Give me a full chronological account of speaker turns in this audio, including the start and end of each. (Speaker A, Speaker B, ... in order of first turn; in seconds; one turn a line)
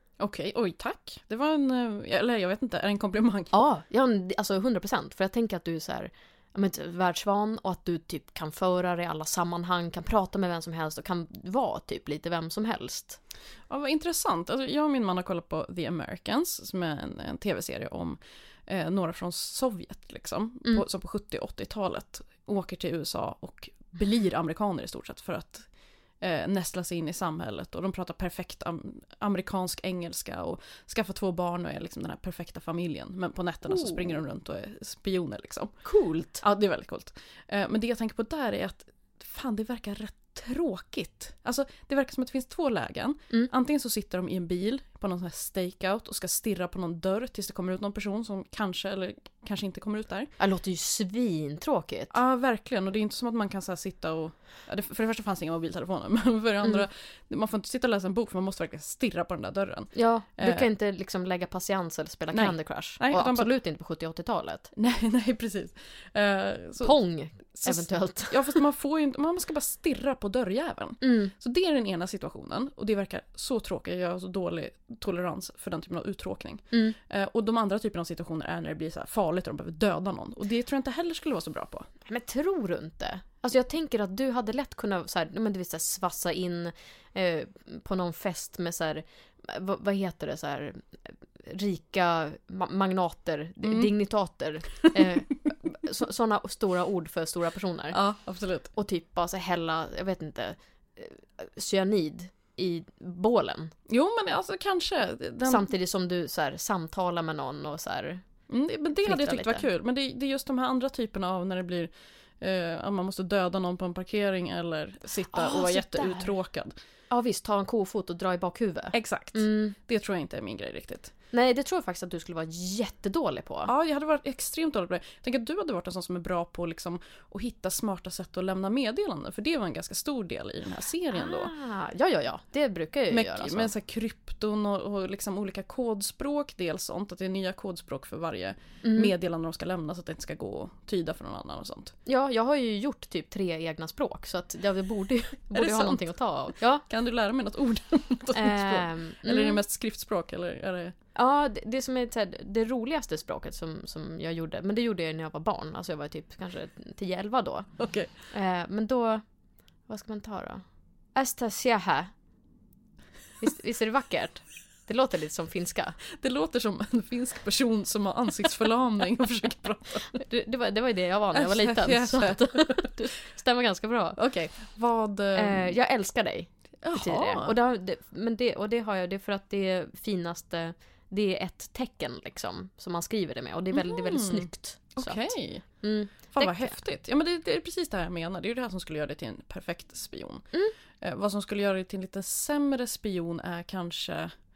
Speaker A: 0.2-3.5
Speaker B: 3.5-13.2
Speaker A: 13.7-25.7
Speaker A: 26.2-35.7
Speaker B: 33.6-34.2
Speaker B: 35.8-36.4
Speaker A: 36.4-50.3
Speaker B: 50.4-52.1
Speaker A: 52.1-60.7
Speaker B: 59.9-64.7
Speaker A: 62.3-63.5
Speaker A: 64.7-67.0
Speaker B: 66.8-68.6
Speaker A: 67.6-81.9
Speaker B: 71.0-71.3
Speaker B: 76.7-77.0
Speaker B: 82.0-98.0
Speaker A: 93.6-93.9
Speaker A: 94.8-95.1
Speaker A: 97.9-98.7
Speaker B: 98.7-103.7
Speaker A: 103.9-105.7
Speaker B: 105.4-108.2
Speaker A: 108.5-116.7
Speaker B: 109.0-109.7
Speaker B: 115.3-116.3
Speaker B: 117.1-119.7
Speaker A: 118.9-121.1
Speaker B: 121.3-123.7
Speaker A: 123.7-131.5
Speaker B: 131.1-133.7
Speaker A: 133.1-141.9
Speaker B: 138.8-139.1
Speaker B: 142.1-146.8
Speaker A: 145.5-146.1
Speaker A: 146.8-150.9
Speaker B: 148.3-149.6
Speaker B: 151.1-157.7
Speaker A: 157.8-158.1
Speaker B: 158.3-159.2
Speaker B: 159.9-160.6
Speaker B: 161.1-162.1
Speaker B: 163.4-166.0
Speaker A: 166.2-170.2
Speaker B: 170.2-174.2
Speaker A: 171.3-172.9
Speaker A: 174.2-175.8
Speaker B: 175.3-185.3
Speaker A: 176.8-177.6
Speaker A: 183.7-185.7
Speaker B: 185.8-186.8
Speaker A: 186.3-190.4
Speaker A: 191.0-194.3